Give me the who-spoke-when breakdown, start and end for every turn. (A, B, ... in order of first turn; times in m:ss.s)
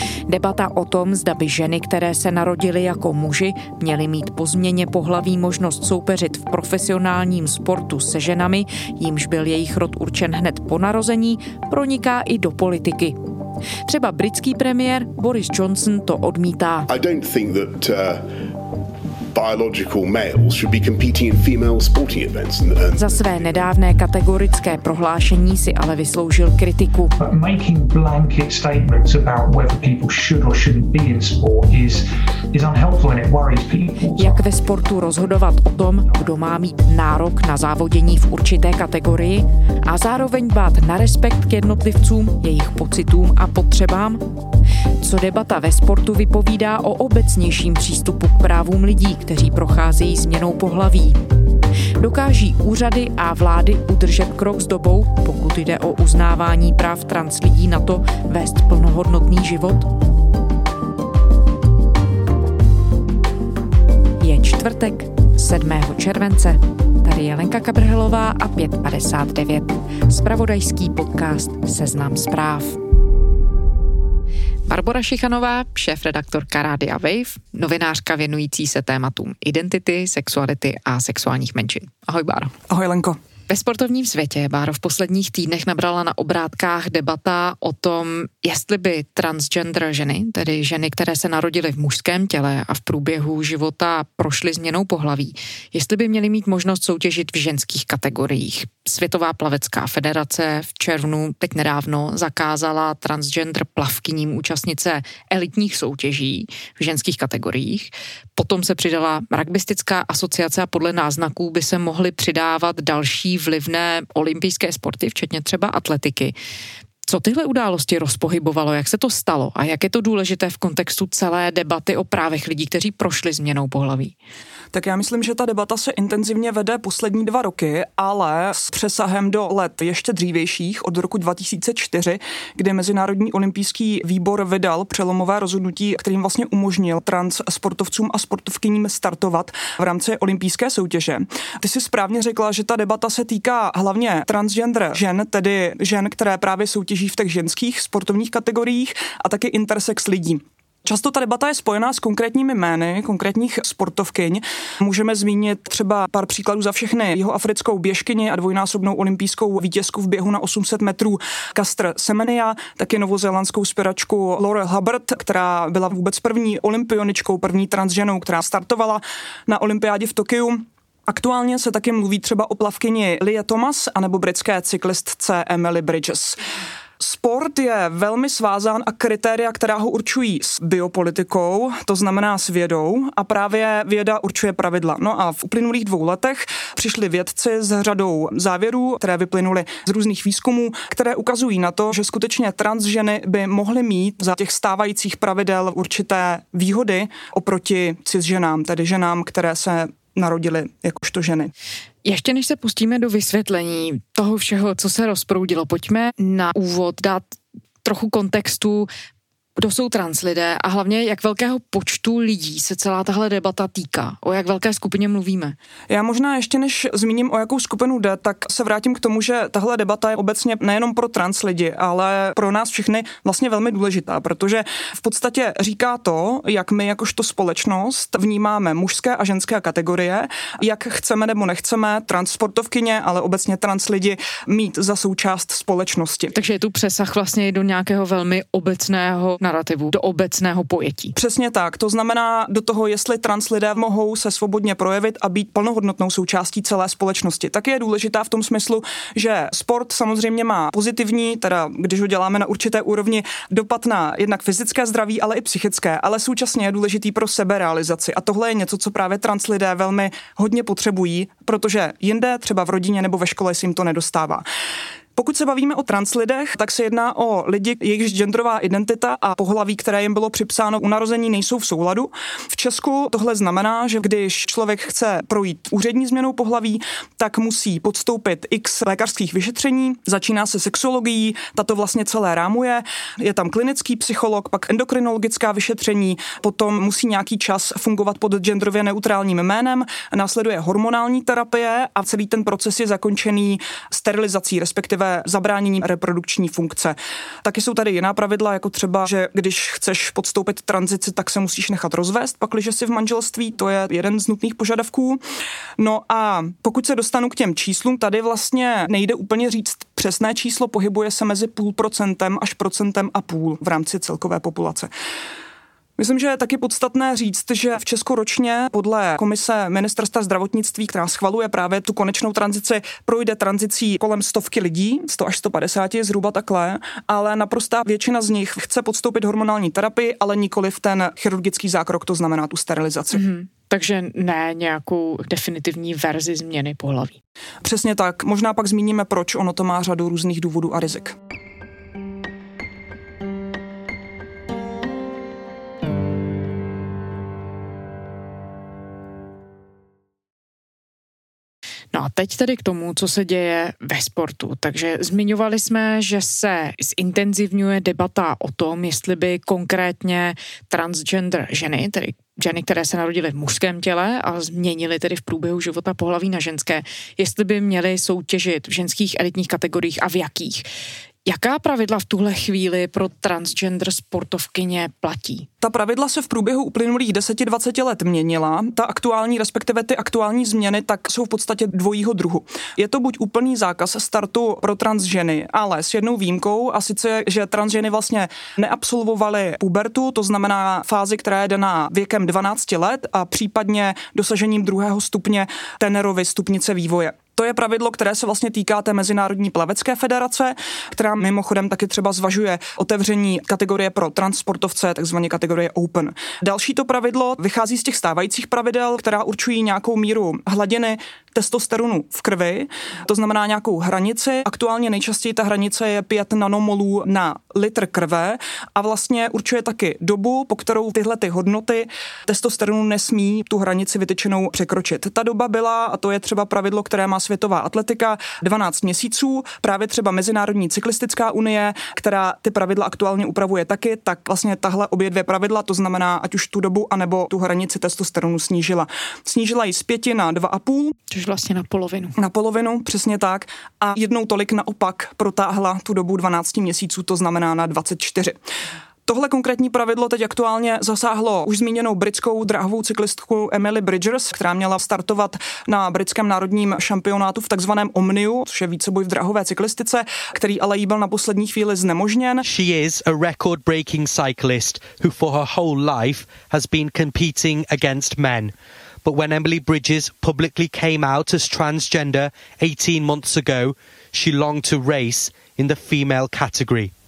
0:00.3-0:13.2 A
0:13.9-0:16.9 A
0:16.9-0:18.4 B
0:19.3-0:23.4 B
0:23.0-0:27.2 A
0:27.2-0:34.4 C
0:34.2-0:44.2 A
0:45.0-0:51.2 A
0:52.0-0:59.9 A
1:04.2-1:12.8 A
1:14.7-1:22.5 A
1:22.7-1:23.2 D
1:23.5-1:56.3 A
1:57.0-2:04.2 A
2:04.7-2:56.4 D
2:57.0-3:21.5 D
3:22.0-3:27.2 A
3:27.8-3:28.9 A
3:29.6-3:35.6 A
3:35.9-3:56.3 D
3:56.3-4:01.2 A
4:01.2-4:24.4 D
4:25.2-5:05.2 D
5:05.8-5:14.9 D
5:16.0-5:33.2 D
5:33.1-5:37.2 A
5:37.6-5:41.2 D
5:51.9-6:10.7 A
6:11.2-6:15.5 A
6:15.6-7:21.0 D
7:21.1-7:22.1 A
7:22.2-7:28.4 D
7:29.1-7:42.4 D
7:42.4-7:56.9 E